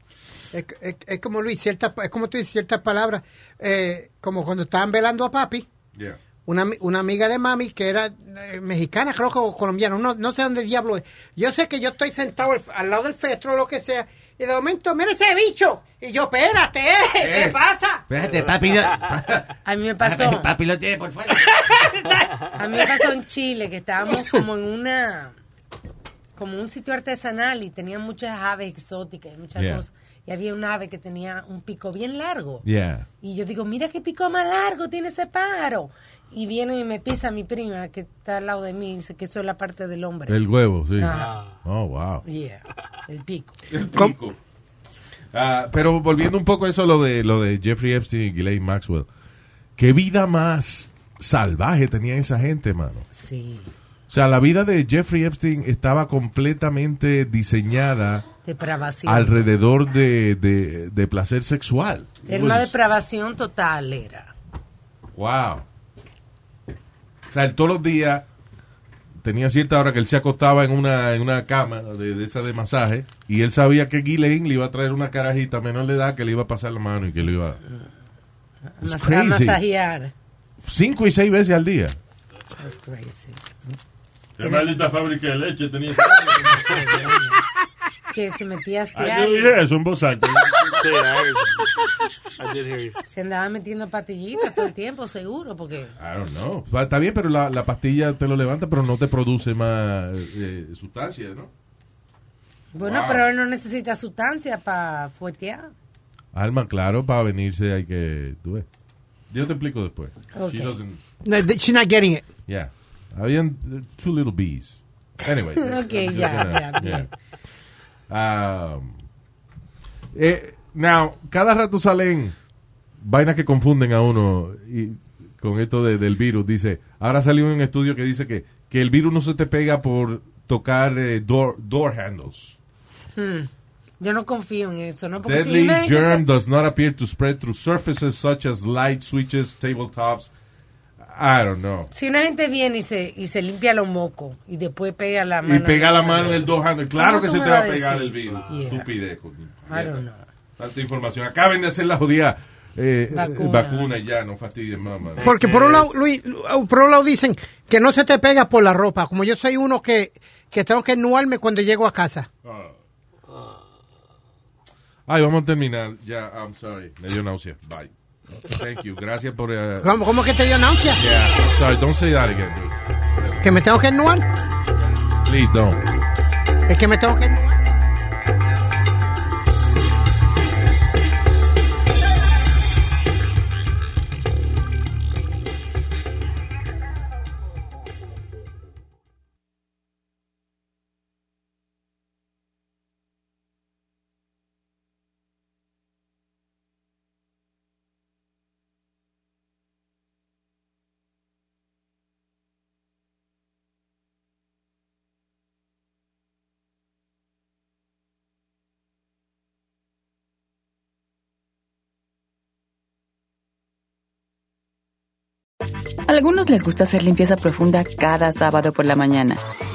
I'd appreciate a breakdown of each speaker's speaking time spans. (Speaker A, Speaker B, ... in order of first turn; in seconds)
Speaker A: 0.5-5.7, 6.5-18.7, 21.5-22.8, 43.9-44.1, 111.2-112.2, 155.2-162.3, 169.8-171.0, 173.4-174.3, 176.7-177.4
Speaker B: 17.2-17.6, 18.1-21.8, 29.6-29.8, 32.6-33.1, 40.3-42.2, 43.7-44.4, 45.3-49.1, 49.8-53.0, 54.1-58.2, 59.0-62.7, 65.1-65.6, 67.3-68.2, 69.2-77.6, 78.8-79.6, 80.6-82.0, 96.0-101.5, 102.8-103.3, 106.3-108.7, 109.3-111.0, 112.5-117.1, 118.1-119.0, 120.1-122.3, 123.0-132.6, 135.2-140.3, 141.0-141.9, 145.4-150.0, 150.6-155.9, 165.1-169.9, 171.0-173.5, 175.2-175.8
Speaker C: 19.6-20.6, 22.5-25.3, 26.4-32.6, 33.2-40.4, 41.0-41.4, 42.2-43.6, 53.1-53.7, 58.4-59.5, 62.2-64.3, 78.7-80.1, 82.5-83.7, 86.7-87.4, 88.1-89.6, 93.1-95.9, 102.7-105.7, 110.3-110.8, 115.5-117.1, 133.1-136.2, 141.9-148.9, 149.7-150.2, 153.1-153.9
Speaker D: 41.0-41.6, 82.3-82.6, 90.7-91.7, 92.4-93.0, 148.2-148.8, 155.2-155.7, 163.3-163.6
Speaker E: 84.4-87.0, 88.9-91.2, 162.4-162.8
Speaker F: 216.1-219.4